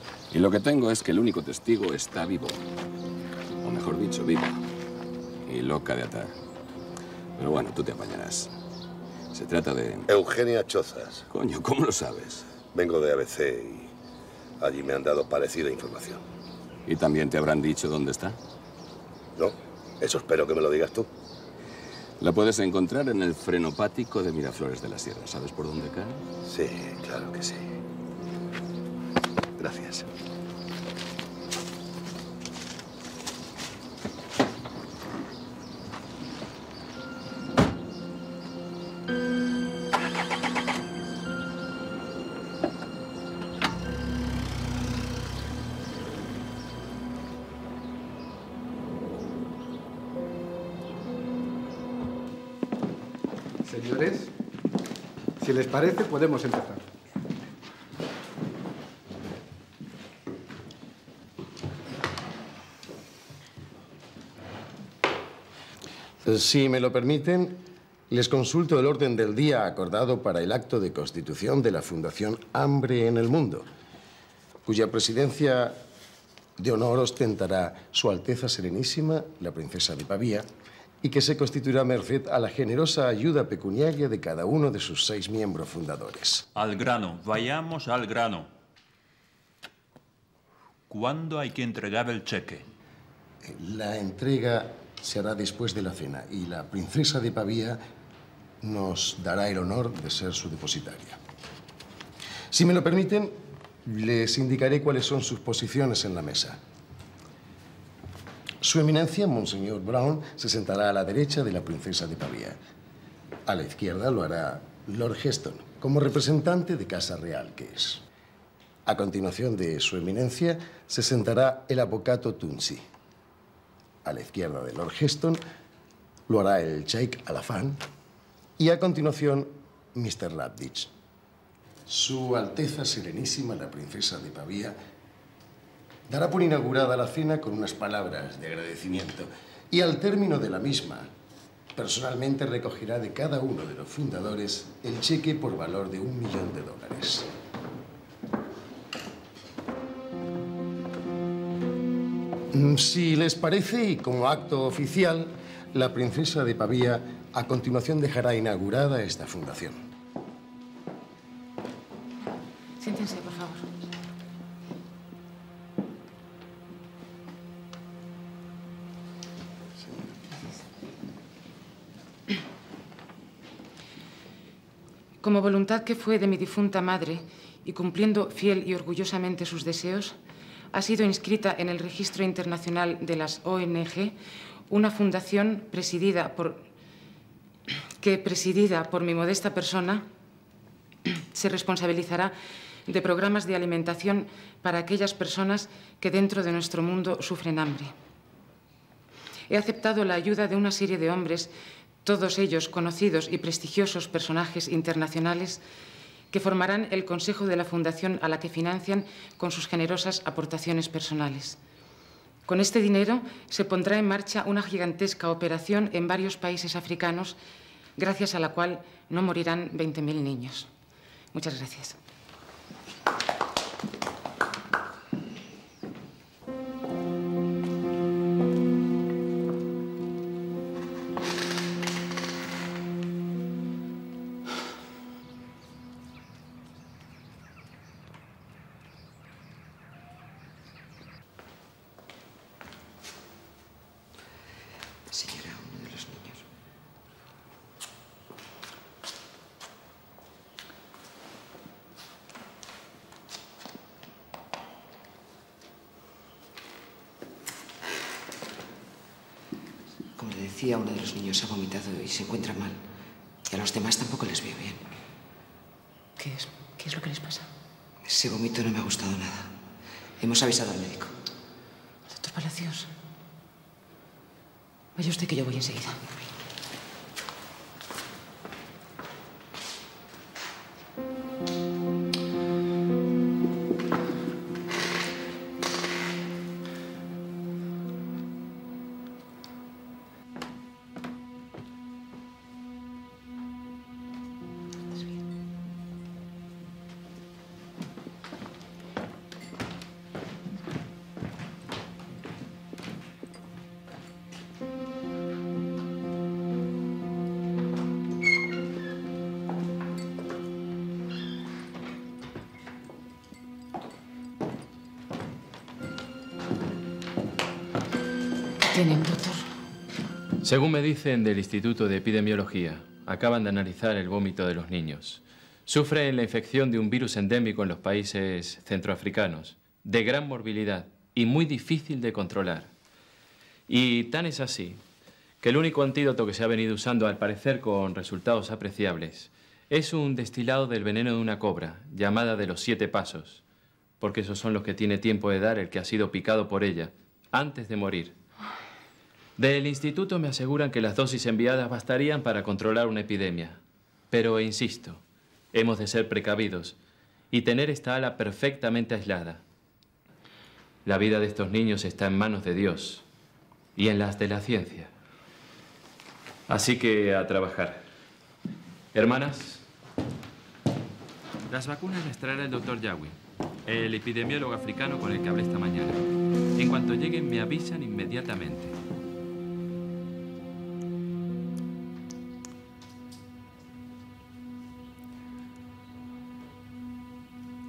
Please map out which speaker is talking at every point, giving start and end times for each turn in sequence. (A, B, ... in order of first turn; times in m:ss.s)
0:00.3-0:02.6 A
0:03.6-0:04.6 A
0:05.5-0:06.4 A
0:07.4-0:08.5 A
0:09.3-0:10.1 A
0:10.1-0:11.3 B
0:11.3-0:12.5 A
0:12.7-0:13.9 B
0:14.6-0:16.2 B
0:16.9-0:18.4 A
0:19.4-0:21.1 B
0:22.2-0:26.2 A
0:26.5-0:27.7 B
0:29.6-0:30.1 B
0:53.7-0:54.3 C
0:55.4-0:56.8 C
1:06.2-1:13.7 D
1:14.7-1:15.8 D
1:16.6-1:20.5 D
1:21.0-1:26.4 D
1:26.6-1:28.5 E
1:30.9-1:32.7 E
1:33.4-1:37.8 D
1:38.6-1:41.2 D
1:42.5-1:46.6 D
1:48.6-1:52.6 D
1:53.5-1:58.0 D
1:58.9-2:02.8 D
2:04.0-2:05.4 D
2:06.3-2:07.8 D
2:08.6-2:10.9 D
2:11.9-2:14.8 D
2:16.1-2:21.1 D
2:21.8-2:27.3 D
2:32.5-2:39.8 D
2:42.8-2:43.6 F
2:55.2-3:00.2 F
3:00.7-3:04.2 F
3:04.7-3:06.7 F
3:08.0-3:10.1 F
3:11.3-3:17.9 F
3:19.5-3:21.5 F
3:22.0-3:25.6 F
3:26.3-3:31.6 F
3:32.5-3:37.4 F
3:38.0-3:40.7 F
3:41.3-3:42.0 F
4:05.1-4:06.4 G
4:20.2-4:22.8 G
4:23.5-4:24.8 G
4:26.2-4:27.5 F
4:28.0-4:29.6 G
4:30.2-4:31.2 G
4:32.1-4:32.9 F
4:35.0-4:36.1 F
5:18.6-5:19.5 F
5:20.4-5:32.7 H
5:33.7-5:34.8 H
5:35.4-5:43.4 H
5:44.0-5:48.2 H
5:49.4-5:55.0 H
5:55.5-5:56.8 H
5:57.3-5:59.4 H
6:00.8-6:03.0 H
6:03.8-6:04.9 H
6:06.5-6:07.8 H
6:08.9-6:09.6 H
6:11.5-6:16.0 H
6:16.6-6:18.8 H